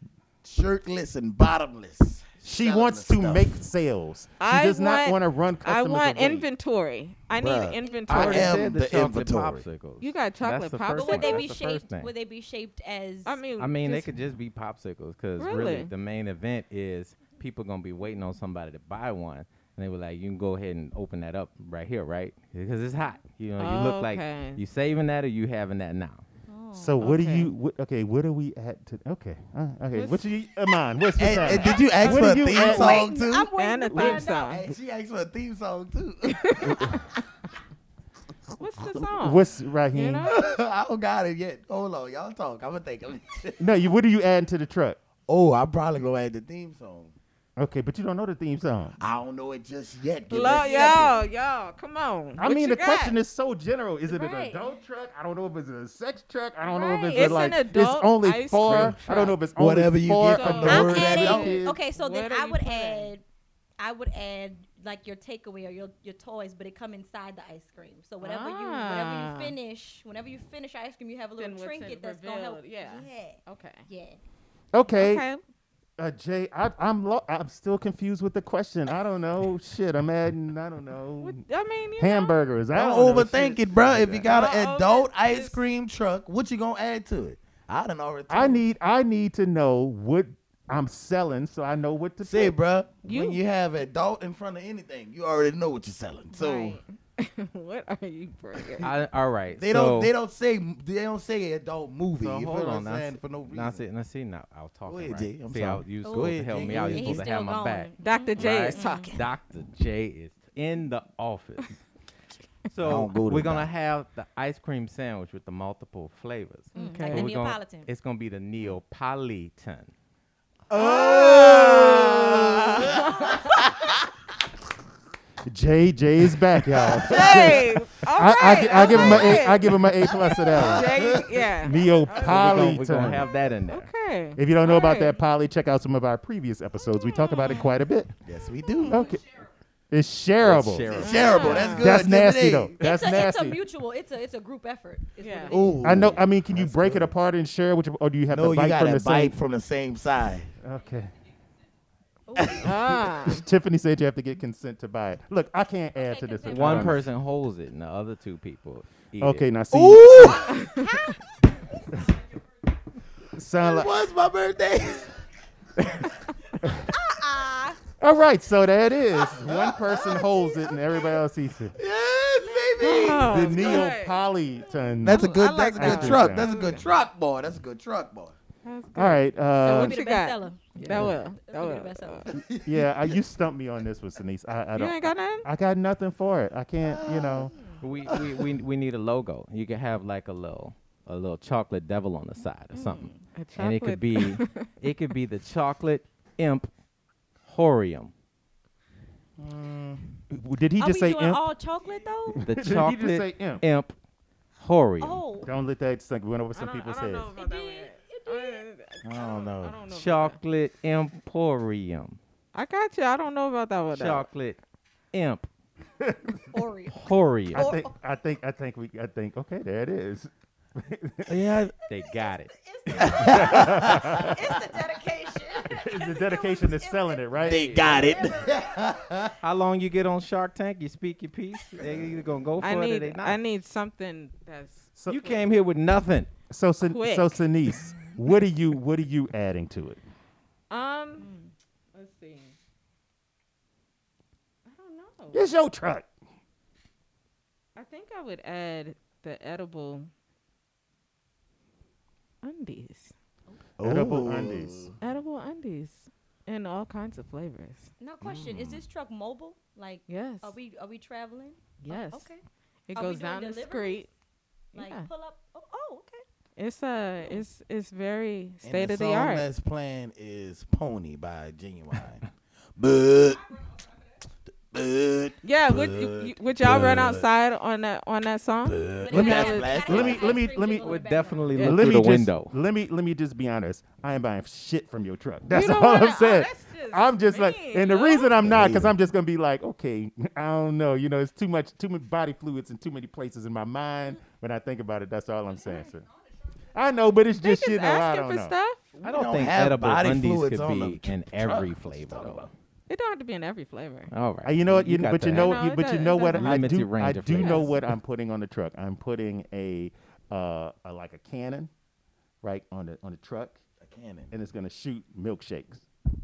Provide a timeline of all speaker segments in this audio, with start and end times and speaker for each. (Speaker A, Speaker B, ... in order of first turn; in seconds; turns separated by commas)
Speaker A: 0.4-3.5, Speaker B: 2.4-6.5, Speaker C: 4.4-8.6, Speaker A: 7.3-9.6, Speaker D: 8.1-12.1, Speaker C: 10.0-11.6, Speaker E: 10.9-13.4, Speaker C: 13.2-14.1, Speaker D: 13.6-26.2, Speaker C: 15.4-15.9, Speaker C: 23.6-24.6, Speaker E: 26.5-27.1, Speaker B: 26.7-33.1, Speaker C: 27.0-27.5, Speaker C: 29.9-30.2, Speaker A: 31.1-33.5, Speaker E: 31.3-34.6, Speaker C: 33.6-34.6, Speaker B: 33.9-34.2, Speaker A: 34.4-37.0, Speaker C: 36.2-37.0, Speaker B: 36.7-37.0, Speaker C: 38.5-40.4, Speaker B: 39.2-40.3, Speaker A: 40.2-43.6, Speaker B: 43.6-45.0, Speaker A: 45.3-47.1, Speaker B: 47.6-49.0, Speaker A: 49.0-51.3, Speaker C: 50.3-53.1, Speaker E: 50.4-51.1, Speaker B: 52.4-61.8, Speaker E: 54.1-54.7, Speaker C: 56.7-59.4, Speaker E: 57.0-57.4, Speaker A: 58.6-59.0, Speaker A: 59.5-61.6, Speaker C: 60.2-63.1, Speaker E: 60.7-63.2, Speaker E: 63.8-74.2, Speaker C: 68.2-69.5, Speaker C: 71.4-73.8, Speaker B: 74.7-75.2, Speaker C: 74.9-75.4, Speaker B: 76.0-81.4, Speaker C: 81.2-82.3, Speaker B: 82.0-84.3, Speaker A: 82.7-88.6, Speaker C: 84.2-85.6, Speaker B: 88.3-92.6, Speaker A: 92.2-96.8, Speaker C: 93.0-93.4, Speaker C: 96.3-98.9, Speaker D: 98.8-100.1, Speaker A: 99.5-103.8, Speaker D: 102.2-111.7, Speaker A: 104.9-107.3, Speaker E: 106.0-109.1, Speaker C: 108.0-109.2, Speaker D: 112.7-119.9, Speaker A: 112.8-113.7, Speaker C: 116.7-117.3, Speaker E: 116.7-117.9, Speaker B: 120.7-123.0, Speaker A: 120.7-123.9, Speaker C: 120.8-123.5, Speaker B: 125.5-131.0, Speaker A: 126.8-127.6, Speaker C: 127.0-132.5, Speaker A: 128.9-131.5, Speaker B: 131.6-133.2, Speaker D: 132.1-133.9, Speaker A: 132.5-133.1, Speaker C: 133.7-135.1, Speaker B: 134.3-138.1, Speaker C: 137.0-137.7, Speaker A: 138.2-139.1, Speaker E: 138.6-139.1, Speaker B: 138.8-139.2, Speaker B: 139.9-141.0, Speaker D: 140.4-141.5, Speaker A: 140.8-142.7, Speaker C: 141.0-142.0, Speaker E: 141.2-141.8, Speaker B: 141.8-143.6, Speaker E: 142.8-145.9, Speaker C: 145.2-145.6, Speaker A: 145.5-147.1, Speaker B: 145.8-149.3, Speaker A: 148.3-150.5, Speaker B: 150.6-151.1, Speaker E: 152.3-152.7, Speaker A: 152.4-152.8, Speaker C: 152.5-153.4, Speaker B: 152.9-157.1, Speaker E: 155.9-156.9, Speaker D: 156.5-159.4, Speaker B: 159.2-160.6, Speaker A: 159.7-160.6, Speaker C: 160.5-161.0, Speaker E: 160.8-161.0, Speaker B: 163.3-164.0, Speaker A: 163.6-165.1, Speaker B: 166.6-166.9, Speaker E: 166.9-167.8, Speaker B: 168.0-171.8, Speaker A: 169.2-171.0, Speaker A: 171.7-173.9, Speaker E: 172.4-173.1, Speaker C: 172.8-174.2, Speaker B: 173.2-176.5, Speaker A: 175.0-178.3, Speaker C: 175.1-176.9, Speaker C: 178.6-182.3, Speaker B: 178.9-180.0, Speaker E: 179.6-182.3, Speaker D: 180.8-181.1, Speaker A: 182.3-183.2, Speaker B: 182.6-187.5, Speaker C: 184.7-185.5, Speaker A: 186.8-188.5, Speaker C: 187.6-187.8, Speaker D: 187.8-196.7, Speaker E: 192.7-193.2, Speaker C: 193.3-194.7, Speaker D: 197.4-198.1, Speaker A: 199.4-200.2, Speaker B: 200.3-201.4, Speaker E: 200.8-202.4, Speaker B: 202.3-203.6, Speaker D: 202.4-203.9, Speaker D: 204.6-205.2, Speaker E: 205.0-205.5, Speaker B: 205.4-207.3, Speaker C: 206.5-210.4, Speaker E: 207.3-208.7, Speaker A: 209.0-209.8, Speaker D: 209.9-212.2, Speaker C: 212.5-214.3, Speaker D: 213.9-214.6, Speaker D: 215.1-215.5, Speaker B: 216.0-216.5, Speaker E: 216.5-217.9, Speaker D: 216.9-217.7, Speaker B: 217.5-221.3, Speaker A: 221.3-221.7, Speaker D: 221.9-223.3, Speaker E: 221.9-228.8, Speaker A: 222.9-224.3, Speaker B: 223.3-224.3, Speaker B: 225.6-227.9, Speaker A: 227.4-229.3, Speaker D: 227.5-228.2, Speaker D: 229.4-233.4, Speaker A: 231.8-232.2, Speaker C: 232.6-235.4, Speaker B: 235.0-235.3, Speaker D: 235.1-236.3, Speaker B: 236.5-240.0, Speaker C: 236.8-237.4, Speaker C: 240.7-241.3, Speaker E: 241.2-241.5, Speaker C: 241.9-242.5, Speaker C: 244.7-245.4, Speaker B: 245.3-246.1, Speaker C: 247.8-250.1, Speaker C: 252.4-253.1, Speaker A: 253.8-254.9, Speaker B: 253.8-254.9, Speaker C: 255.0-257.9, Speaker E: 258.0-262.4, Speaker A: 258.2-258.8, Speaker C: 260.1-260.5, Speaker C: 261.8-262.3, Speaker C: 262.9-264.1, Speaker E: 262.9-264.1, Speaker C: 264.7-265.1, Speaker E: 264.7-266.2, Speaker C: 266.6-269.4, Speaker A: 268.6-273.6, Speaker A: 274.7-277.2, Speaker C: 275.4-280.1, Speaker A: 278.6-280.4, Speaker E: 279.0-281.6, Speaker B: 279.8-281.0, Speaker D: 280.8-282.5, Speaker C: 281.6-281.9, Speaker B: 281.6-296.0, Speaker C: 285.5-288.4, Speaker A: 288.4-288.9, Speaker B: 296.7-298.5, Speaker C: 297.4-299.0, Speaker A: 299.0-302.5, Speaker D: 299.0-302.5, Speaker C: 302.9-304.1, Speaker D: 304.1-305.6, Speaker B: 304.4-311.7, Speaker C: 305.3-306.5, Speaker D: 306.2-307.8, Speaker C: 307.4-307.6, Speaker B: 312.4-313.6, Speaker A: 313.8-314.3, Speaker B: 314.3-315.9